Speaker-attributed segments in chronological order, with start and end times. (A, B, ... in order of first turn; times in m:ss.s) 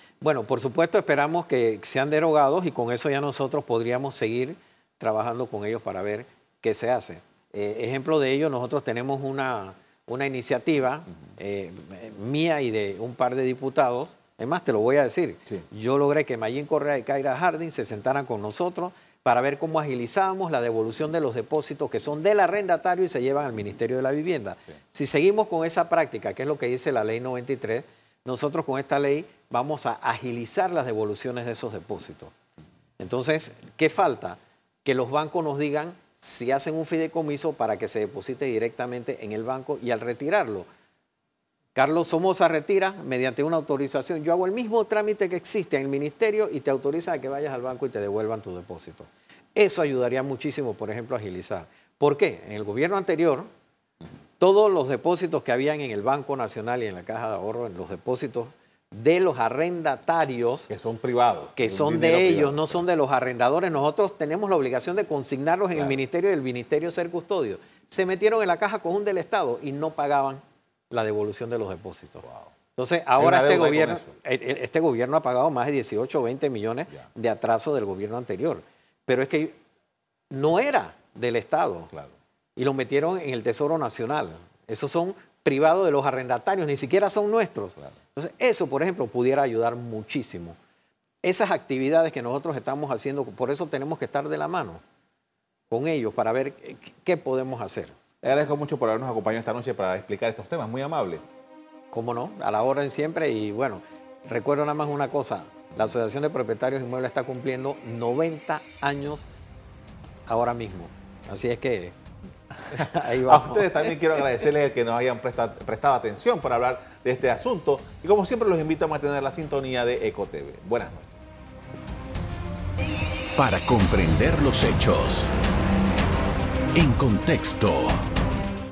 0:00.2-0:32.3 A
0:33.0-0:40.6 A
0:41.8-0:53.5 A
0:54.4-1:00.7 A
1:00.7-1:02.8 B
1:01.6-1:12.2 A
1:05.7-1:06.0 B
1:12.8-1:19.6 A
1:13.2-1:14.1 B
1:20.3-1:21.9 A
1:22.6-1:30.6 A
1:31.2-1:34.8 A
1:35.7-1:38.0 A
1:38.2-1:41.2 B
1:41.9-1:49.2 A
1:50.3-1:52.0 A
1:52.7-1:53.9 A
1:52.8-2:01.3 B
2:03.4-2:05.3 C
2:06.8-2:08.1 C